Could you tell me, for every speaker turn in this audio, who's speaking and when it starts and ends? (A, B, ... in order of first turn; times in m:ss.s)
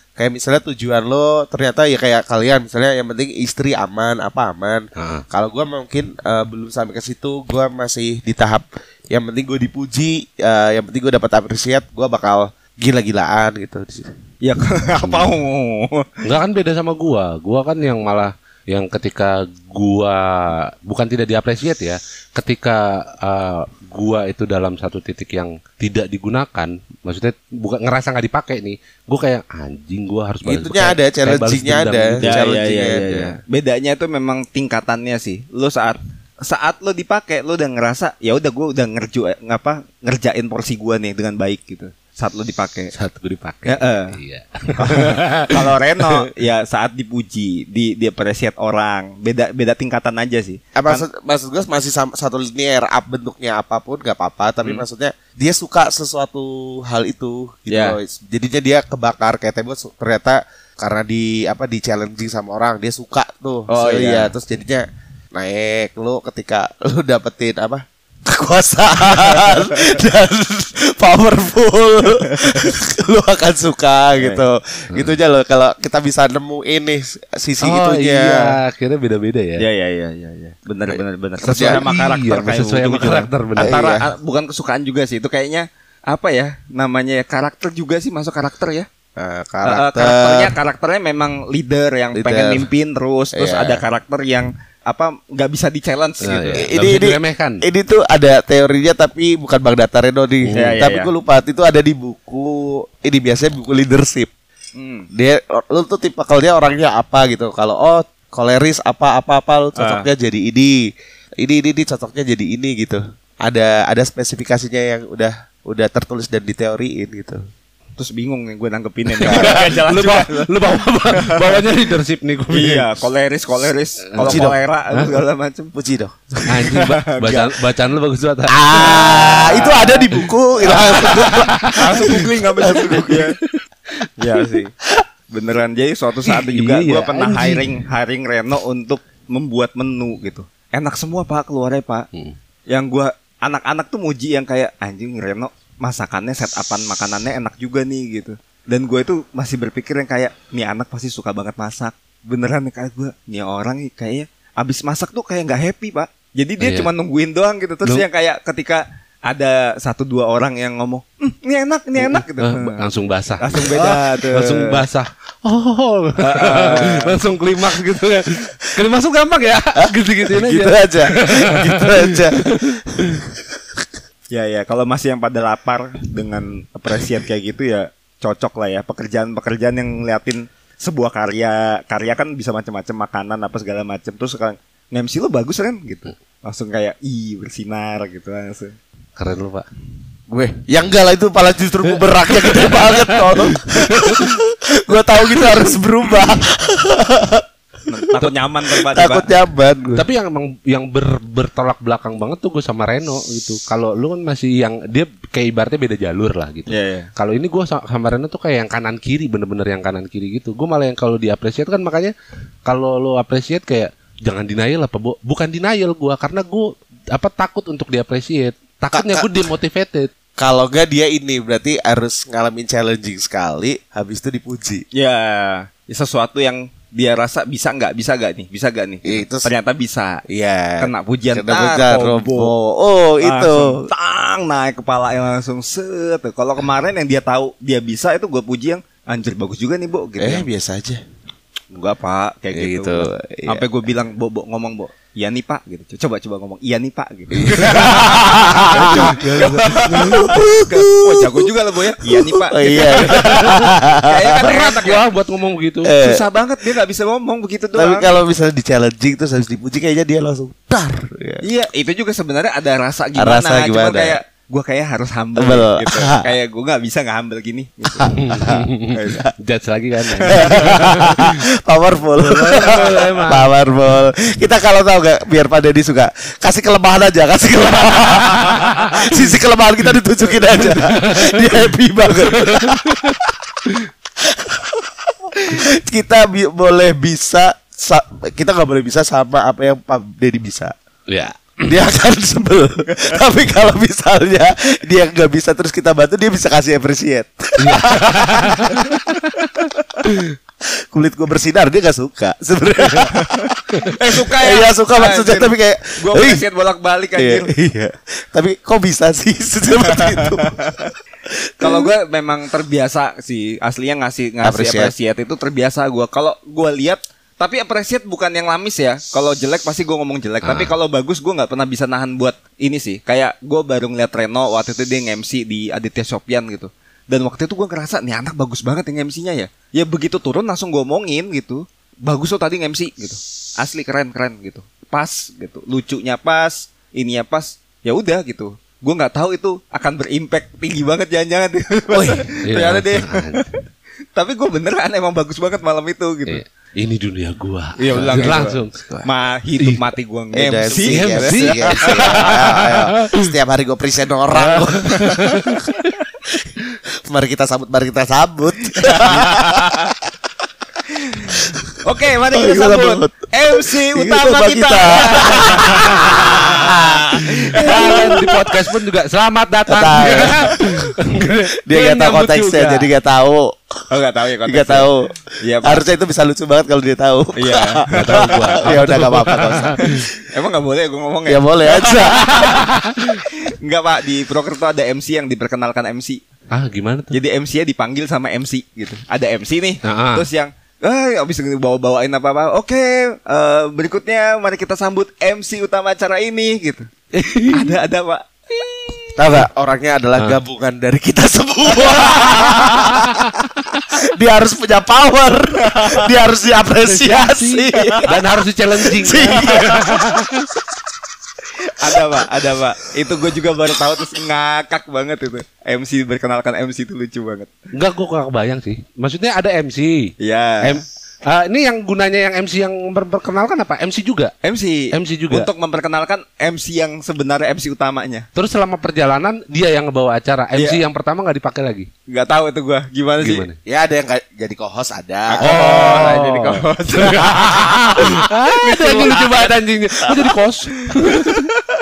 0:00.2-0:14.1 A
0:05.0-0:05.2 B
0:14.4-0:16.1 C
0:16.2-0:32.4 B
0:30.4-0:33.4 A
0:32.2-0:42.9 C
0:42.9-0:46.1 B
0:43.6-0:44.1 C
0:44.8-0:51.0 C
0:50.7-1:18.6 A
0:57.7-0:58.0 C
1:03.7-1:04.3 C
1:09.2-1:09.8 C
1:12.3-1:12.7 C
1:14.2-1:14.4 C
1:17.6-1:19.6 B
1:19.6-1:28.9 C
1:20.9-1:21.8 A
1:21.4-1:23.8 B
1:23.6-1:24.1 A
1:29.2-1:30.5 A
1:29.6-1:36.6 C
1:32.1-1:32.6 A
1:33.3-1:33.8 A
1:36.2-1:37.6 B
1:36.6-1:44.3 A
1:40.4-1:40.7 B
1:40.5-1:41.1 C
1:44.8-1:45.1 C
1:45.1-1:50.8 A
1:49.8-1:50.1 C
1:51.4-1:57.4 A
1:58.0-2:00.5 C
1:59.2-1:59.6 A
1:59.2-2:02.9 B
2:01.1-2:01.6 C
2:02.5-2:05.7 C
2:04.1-2:05.2 B
2:04.2-2:04.6 A
2:05.7-2:06.3 A
2:06.5-2:09.7 B
2:06.5-2:07.5 C
2:08.5-2:13.3 A
2:08.7-2:10.1 C
2:10.6-2:12.2 B
2:10.7-2:11.2 C
2:11.7-2:13.3 C
2:14.2-2:14.7 C
2:15.3-2:22.1 C
2:16.3-2:17.6 B
2:22.7-2:42.8 C
2:36.6-2:36.9 B
2:42.1-2:53.2 B
2:43.4-2:44.8 C
2:46.2-2:47.2 C
2:49.8-2:53.8 A
2:54.3-3:08.8 C
3:09.2-3:09.6 B
3:10.3-3:17.4 A
3:12.3-3:14.3 B
3:17.9-3:19.3 C
3:18.2-3:20.0 A
3:19.9-3:32.1 B
3:26.7-3:27.1 C
3:32.6-3:40.1 B
3:38.9-3:39.4 A
3:40.4-3:44.8 A
3:44.9-3:50.2 C
3:49.0-3:49.5 A
3:50.3-3:53.8 A
3:50.8-3:52.5 C
3:53.2-4:00.4 C
4:00.2-4:01.0 A
4:01.7-4:15.0 C
4:02.5-4:03.6 A
4:07.3-4:11.5 A
4:08.6-4:10.4 B
4:12.0-4:14.5 A
4:13.1-4:13.7 B
4:14.4-4:15.9 B
4:15.8-4:16.2 A
4:16.0-4:18.1 C
4:17.7-4:21.4 A
4:21.4-4:28.1 C
4:23.2-4:24.2 A
4:25.4-4:26.3 A
4:28.0-4:29.3 A
4:28.2-4:31.4 B
4:28.9-4:29.2 C
4:30.2-4:30.7 C
4:30.3-4:43.5 A
4:32.2-4:33.5 B
4:40.7-4:42.8 B
4:44.2-4:50.7 A
4:51.1-4:51.8 B
4:51.6-4:59.0 A
4:57.6-4:59.4 B
5:00.8-5:03.6 A
5:03.1-5:07.5 C
5:04.2-5:06.4 A
5:07.2-5:10.7 A
5:09.8-5:10.9 C
5:11.3-5:11.9 A
5:11.6-5:43.6 C
5:14.4-5:14.9 A
5:20.4-5:20.7 B
5:41.9-5:42.3 A
5:42.4-5:43.5 B
5:44.1-5:46.4 C
5:46.2-5:49.1 B
5:47.8-5:52.4 C
5:50.3-5:55.6 A
5:50.8-5:53.3 B
5:54.3-5:55.9 B
5:57.0-5:59.6 A
5:58.8-5:59.9 C
6:01.1-6:08.5 C
6:01.3-6:01.6 A
6:02.3-6:07.0 A
6:07.6-6:12.9 B
6:07.6-6:08.2 A
6:09.7-6:10.8 A
6:11.7-6:13.8 A
6:13.9-6:14.9 C
6:14.4-6:20.2 A
6:15.4-6:15.8 C
6:17.4-6:18.2 C
6:17.9-6:20.0 B
6:19.9-6:22.7 C
6:21.3-6:22.7 A
6:23.2-6:26.2 C
6:26.5-6:27.1 B
6:27.1-6:36.9 C
6:29.8-6:30.2 B
6:37.1-6:37.7 B
6:37.5-6:39.3 C
6:39.2-6:43.3 A
6:41.8-6:42.8 C
6:42.0-6:43.3 B
6:44.0-6:48.2 A
6:45.6-6:46.1 C
6:46.9-6:50.5 B
6:47.7-6:48.2 C
6:48.8-6:50.2 A
6:51.7-6:57.5 C
6:57.7-7:04.3 B
7:00.2-7:00.8 C
7:04.4-7:08.3 C
7:04.9-7:05.5 B
7:08.4-7:11.9 B
7:12.1-7:13.5 C
7:13.2-7:13.6 B
7:13.6-7:16.2 A
7:15.3-7:19.5 C
7:15.4-7:21.5 B
7:20.9-7:21.6 C